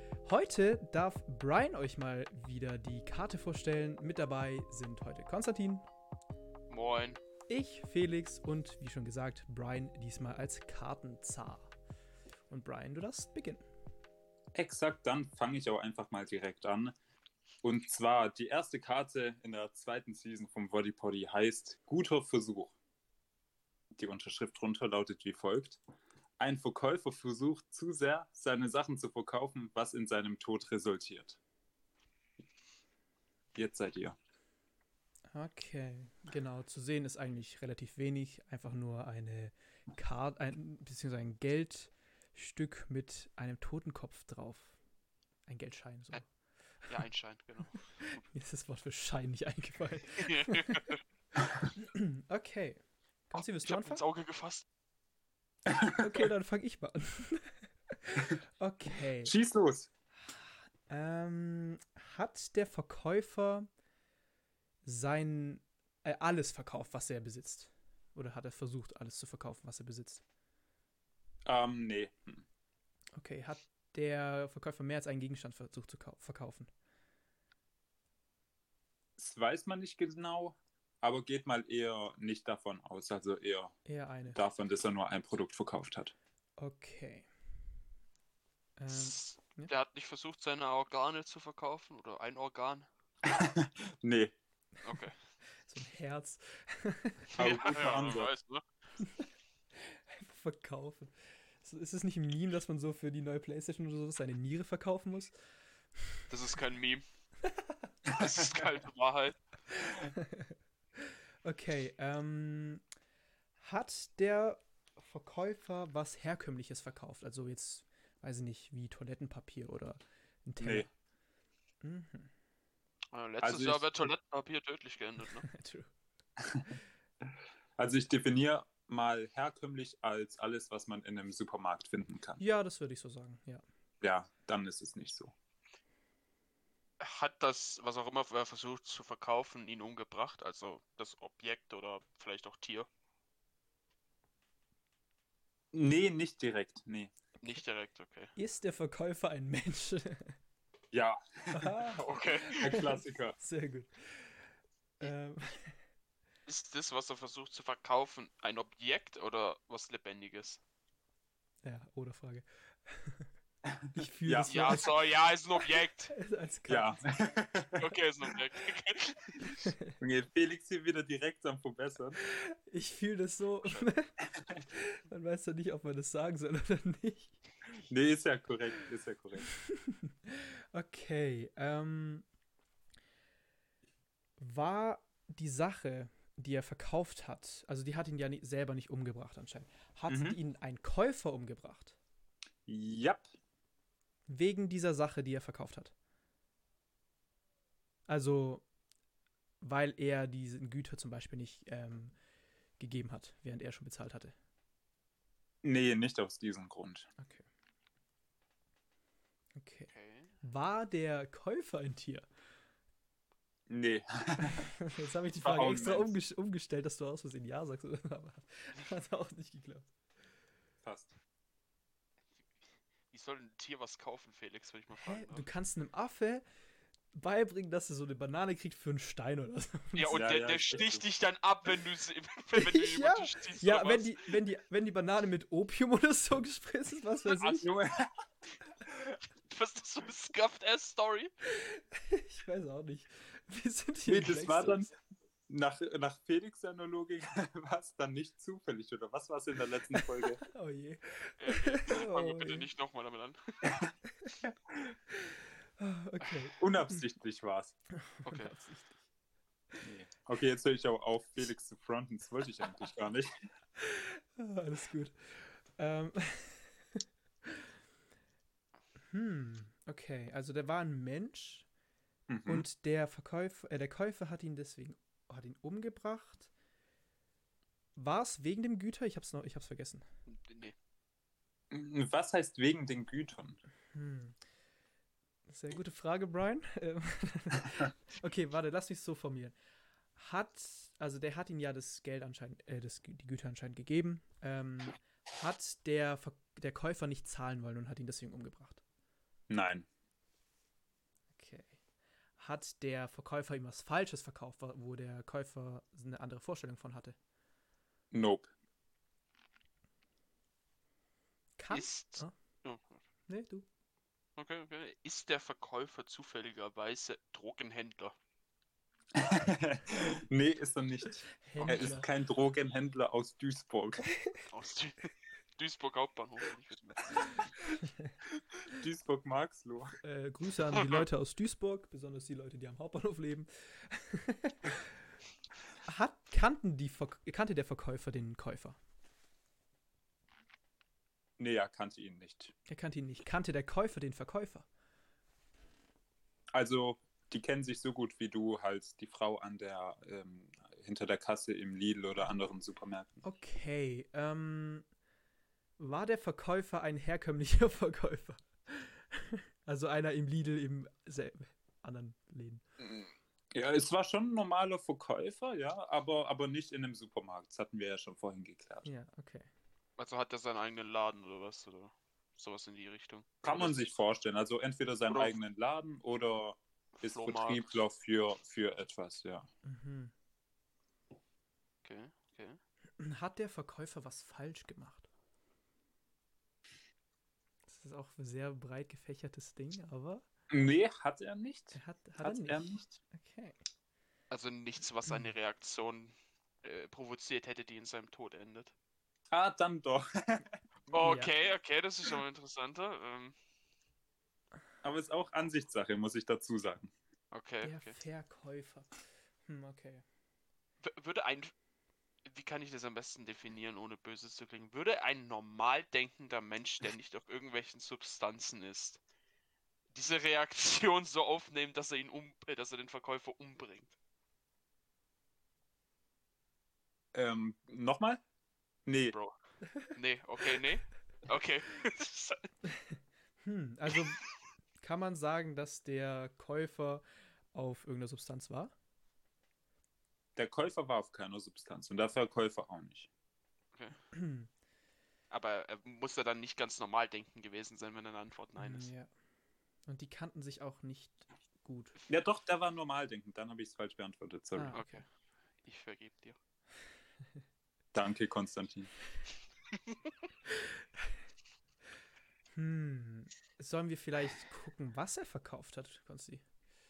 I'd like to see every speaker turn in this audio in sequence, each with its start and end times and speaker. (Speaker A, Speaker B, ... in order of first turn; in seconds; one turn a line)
Speaker A: 0.2-5.8
Speaker B: 6.7-7.2
Speaker A: 7.5-11.7
Speaker A: 12.5-13.6
Speaker C: 14.5-16.9
Speaker C: 17.6-22.8
Speaker C: 24.0-25.8
Speaker C: 26.4-31.4
Speaker C: 33.5-34.1
Speaker A: 35.3-44.7
Speaker A: 45.5-46.2
Speaker B: 46.9-48.1
Speaker A: 48.0-51.0
Speaker B: 50.2-51.0
Speaker A: 51.7-54.0
Speaker B: 53.6-54.6
Speaker A: 56.0-59.3
Speaker C: 59.2-59.9
Speaker A: 60.9-63.7
Speaker A: 64.8-70.2
Speaker C: 71.5-72.4
Speaker A: 73.2-76.7
Speaker C: 79.2-83.8
Speaker A: 83.8-84.4
Speaker C: 84.3-86.1
Speaker A: 86.6-87.3
Speaker A: 88.8-89.7
Speaker B: 88.9-92.9
Speaker C: 93.2-94.3
Speaker B: 94.8-95.1
Speaker A: 95.6-97.4
Speaker C: 97.3-98.3
Speaker B: 97.4-98.6
Speaker A: 99.0-99.3
Speaker A: 99.8-105.3
Speaker B: 106.3-107.0
Speaker A: 107.4-107.9
Speaker B: 108.1-109.4
Speaker A: 109.7-110.5
Speaker A: 111.4-112.8
Speaker A: 113.6-120.9
Speaker C: 120.6-120.9
Speaker A: 121.8-122.3
Speaker B: 123.1-125.5
Speaker C: 123.4-124.1
Speaker A: 125.4-125.9
Speaker C: 126.4-126.7
Speaker C: 127.2-132.4
Speaker A: 132.4-133.6
Speaker C: 134.0-135.3
Speaker B: 137.0-142.9
Speaker C: 145.7-147.1
Speaker B: 147.4-148.3
Speaker A: 148.3-150.3
Speaker C: 150.9-152.0
Speaker A: 151.5-154.3
Speaker B: 151.9-152.6
Speaker C: 152.6-153.3
Speaker A: 155.0-155.8
Speaker B: 156.5-160.6
Speaker A: 161.6-163.3
Speaker C: 163.6-164.9
Speaker A: 163.9-164.9
Speaker B: 164.5-166.1
Speaker A: 166.1-167.0
Speaker C: 166.7-167.8
Speaker B: 167.8-169.6
Speaker A: 169.4-170.0
Speaker C: 170.0-172.2
Speaker A: 172.2-177.3
Speaker C: 177.9-179.4
Speaker A: 179.7-182.2
Speaker A: 184.4-192.0
Speaker C: 190.1-190.4
Speaker C: 192.7-193.2
Speaker A: 194.3-195.9
Speaker A: 198.1-198.7
Speaker A: 199.6-202.2
Speaker A: 202.8-204.3
Speaker C: 205.6-207.1
Speaker A: 207.2-207.4
Speaker A: 209.5-209.9
Speaker B: 209.9-210.3
Speaker A: 210.4-212.2
Speaker C: 213.7-214.7
Speaker A: 214.4-219.9
Speaker C: 215.4-216.2
Speaker C: 220.8-221.1
Speaker B: 223.1-225.5
Speaker A: 224.9-226.4
Speaker A: 227.1-230.2
Speaker B: 229.9-234.2
Speaker C: 230.1-231.0
Speaker A: 232.6-237.7
Speaker C: 237.3-238.1
Speaker B: 237.4-237.6
Speaker B: 239.5-241.3
Speaker A: 241.4-244.9
Speaker C: 244.1-244.9
Speaker C: 245.5-250.4
Speaker A: 249.9-252.7
Speaker B: 251.4-253.8
Speaker A: 254.1-254.3
Speaker A: 255.1-257.0
Speaker C: 256.6-257.7
Speaker A: 257.9-259.0
Speaker B: 258.2-258.5
Speaker C: 259.8-263.4
Speaker A: 263.8-267.0
Speaker A: 269.1-271.6
Speaker C: 272.3-272.6
Speaker A: 272.4-276.5
Speaker A: 277.9-280.0
Speaker B: 280.3-280.7
Speaker C: 281.7-283.6
Speaker A: 283.9-284.4
Speaker A: 285.5-289.5
Speaker A: 290.1-298.8
Speaker C: 299.5-299.9
Speaker A: 301.3-301.8
Speaker A: 302.4-307.1
Speaker C: 308.1-308.5
Speaker A: 311.6-312.3
Speaker B: 311.7-313.0
Speaker A: 313.3-313.6
Speaker B: 314.4-318.1
Speaker C: 319.1-324.1
Speaker A: 321.4-322.1
Speaker B: 321.6-321.9
Speaker B: 324.5-327.5
Speaker A: 327.7-328.1
Speaker C: 328.8-330.0
Speaker A: 330.0-334.9
Speaker B: 330.8-331.1
Speaker A: 335.9-338.8
Speaker C: 341.4-342.5
Speaker A: 342.7-344.6
Speaker C: 346.5-353.2
Speaker A: 353.2-354.8
Speaker A: 355.8-362.6
Speaker C: 362.8-368.9
Speaker A: 368.8-369.5
Speaker B: 370.0-373.9
Speaker C: 373.4-379.5
Speaker B: 375.1-375.4
Speaker B: 377.0-377.8
Speaker A: 379.6-380.1
Speaker B: 381.8-382.6
Speaker A: 383.0-385.1
Speaker A: 387.7-390.2
Speaker C: 390.5-392.8
Speaker A: 391.7-393.6
Speaker B: 394.3-398.7
Speaker A: 395.1-395.3
Speaker C: 399.3-400.5
Speaker A: 400.9-401.3
Speaker B: 400.9-403.3
Speaker C: 404.8-406.9
Speaker B: 407.3-408.0
Speaker A: 407.6-408.9
Speaker A: 409.4-410.0
Speaker B: 410.8-411.5
Speaker B: 412.2-419.0
Speaker B: 419.9-423.9
Speaker C: 427.1-428.2
Speaker C: 428.9-429.1
Speaker B: 429.9-432.4
Speaker A: 433.4-434.2
Speaker A: 434.8-438.7
Speaker C: 440.4-443.1
Speaker A: 444.1-444.5
Speaker B: 445.3-448.9
Speaker A: 448.6-449.1
Speaker A: 449.9-452.0
Speaker C: 452.1-454.8
Speaker A: 454.5-455.0
Speaker B: 454.7-455.0
Speaker B: 455.6-456.4
Speaker C: 457.9-458.9
Speaker A: 462.5-466.4